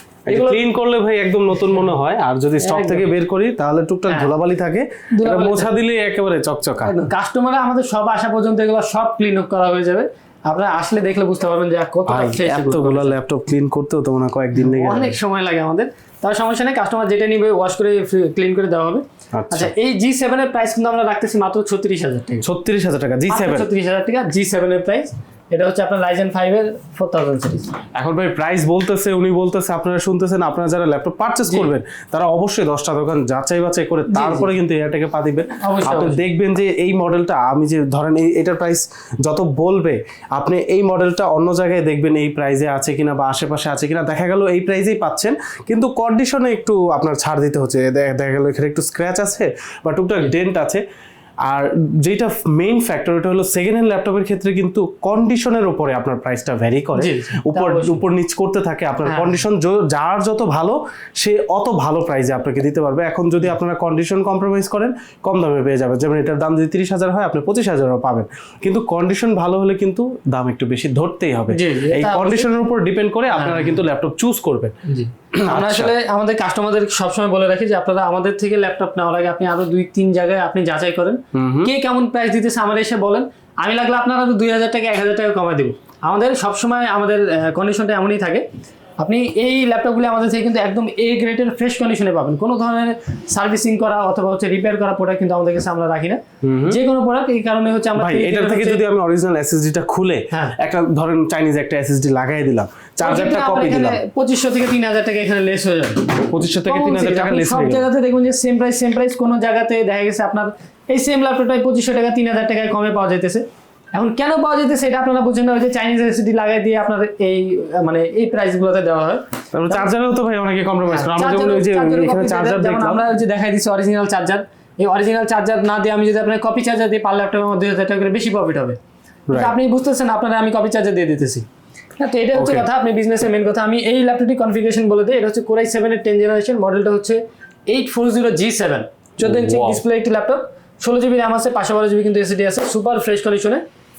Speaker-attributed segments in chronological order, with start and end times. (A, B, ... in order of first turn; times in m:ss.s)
0:00.3-0:00.6 A
0:00.3-0:06.9 B
0:02.6-0:03.1 A
0:04.1-0:04.3 A
0:05.1-0:05.8 A
0:06.8-0:13.2 A
0:12.1-0:15.2 B
0:14.5-0:22.4 A
0:19.3-0:19.7 B
0:22.4-0:23.7 B
0:23.3-0:27.7 A
0:28.0-0:50.8 B
0:34.1-0:34.5 A
0:35.6-0:36.2 A
0:51.4-1:14.7 B
0:57.0-0:58.0 A
0:59.0-0:59.4 A
1:11.5-1:12.5 A
1:13.3-1:13.8 A
1:14.8-1:28.4 A
1:15.4-1:15.9 B
1:21.3-1:21.7 B
1:29.0-1:38.8 A
1:36.4-1:36.8 B
1:38.0-1:44.0 B
1:40.3-1:40.6 A
1:43.0-1:59.9 A
1:46.3-1:47.8 B
1:59.5-2:03.0 B
2:00.9-2:08.8 A
2:09.3-2:11.4 A
2:12.0-2:23.6 A
2:12.3-2:12.6 B
2:19.2-2:19.8 B